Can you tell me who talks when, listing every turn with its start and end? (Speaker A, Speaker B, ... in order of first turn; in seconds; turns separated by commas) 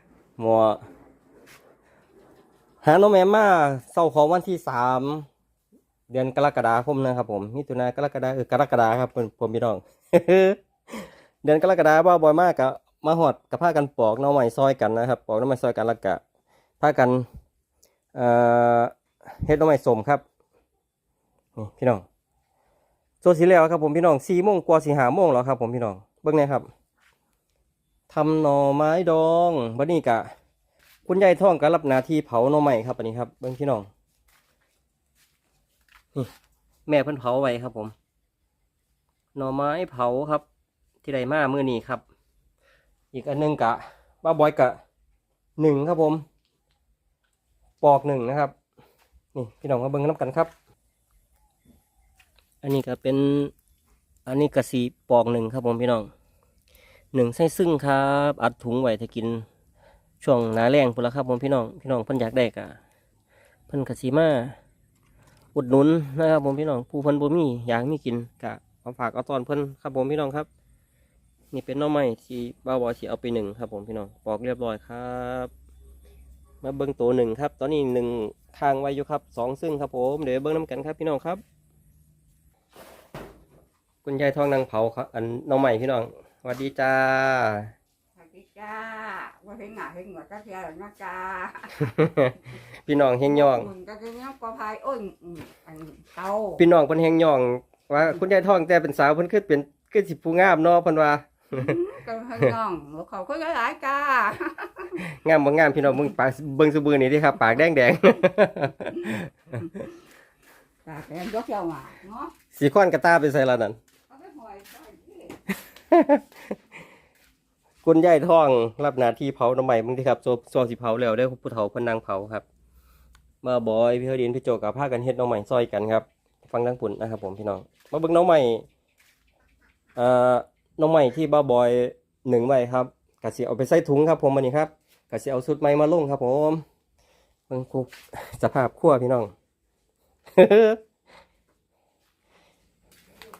Speaker A: 0.4-0.8, Speaker A: 2.8-5.3, Speaker A: 6.1-16.2, Speaker A: 16.8-17.3, Speaker A: 18.1-20.2, Speaker A: 21.6-22.0, Speaker A: 23.2-26.7, Speaker A: 28.1-30.3, Speaker A: 31.1-33.9, Speaker A: 36.9-37.9, Speaker A: 39.3-40.4, Speaker A: 41.0-42.0, Speaker A: 43.1-44.8, Speaker A: 45.6-46.2, Speaker A: 47.8-48.5, Speaker A: 49.3-50.5, Speaker A: 52.6-53.5, Speaker A: 54.2-56.1, Speaker A: 57.1-59.5, Speaker A: 60.2-62.8, Speaker A: 63.7-64.6, Speaker A: 65.5-70.5, Speaker A: 71.5-75.5, Speaker A: 76.6-81.4, Speaker A: 84.0-87.7, Speaker B: 88.2-92.0, Speaker A: 91.8-93.7, Speaker B: 93.3-96.6, Speaker A: 96.6-101.8, Speaker B: 101.5-105.0, Speaker A: 104.9-109.8, Speaker B: 110.8-112.3, Speaker A: 112.5-113.8, Speaker B: 114.1-115.4, Speaker A: 115.5-116.6, Speaker A: 117.8-122.5, Speaker A: 123.4-128.7, Speaker A: 129.9-136.6, Speaker A: 137.5-139.3, Speaker A: 140.3-140.8